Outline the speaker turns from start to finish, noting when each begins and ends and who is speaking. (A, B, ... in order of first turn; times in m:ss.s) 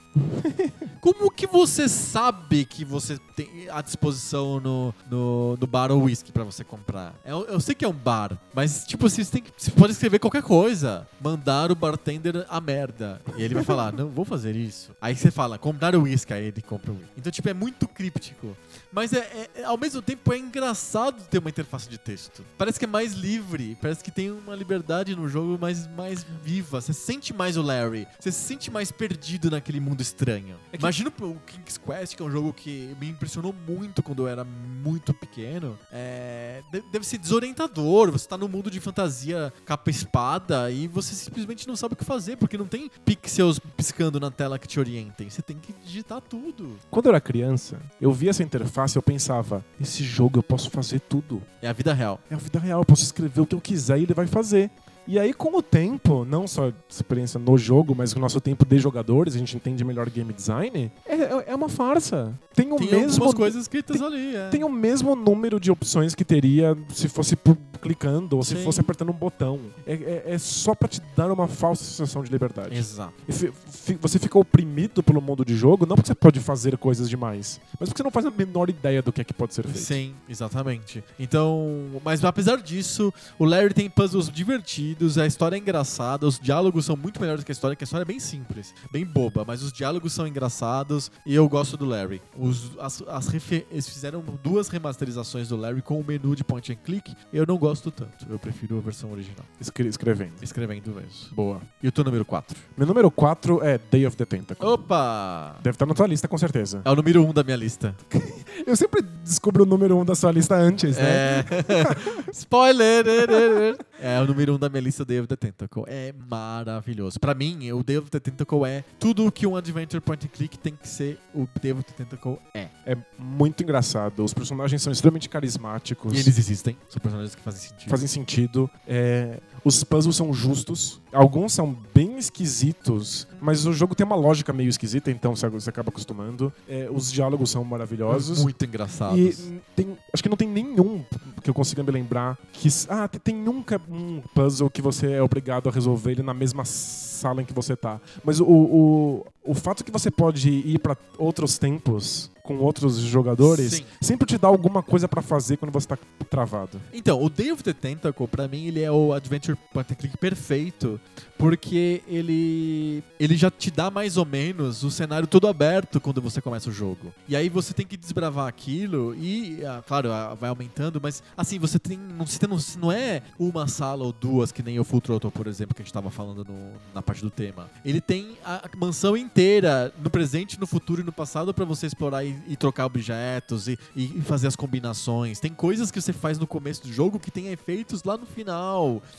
0:00.2-0:00.9 A
0:01.0-0:46.8 B
0:46.9-0:51.5 A
0:51.6-0:52.2 B
0:52.3-1:20.0 A
1:02.8-1:04.7 B
1:08.4-1:08.9 B
1:12.7-1:13.2 B
1:19.7-1:39.5 B
1:39.6-1:40.4 A
1:40.4-1:42.6 B
1:41.3-1:41.7 A
1:42.8-1:44.8 A
1:44.6-1:45.6 B
1:45.6-1:46.9 A
1:46.8-1:48.0 B
1:48.1-1:52.3 A
1:50.9-2:02.7 B
1:53.3-1:53.6 A
2:02.9-2:06.3 A
2:06.1-2:08.0 B
2:07.9-2:18.5 A
2:18.1-2:19.5 B
2:19.0-2:36.9 A
2:33.4-2:33.9 B
2:36.9-3:09.0 B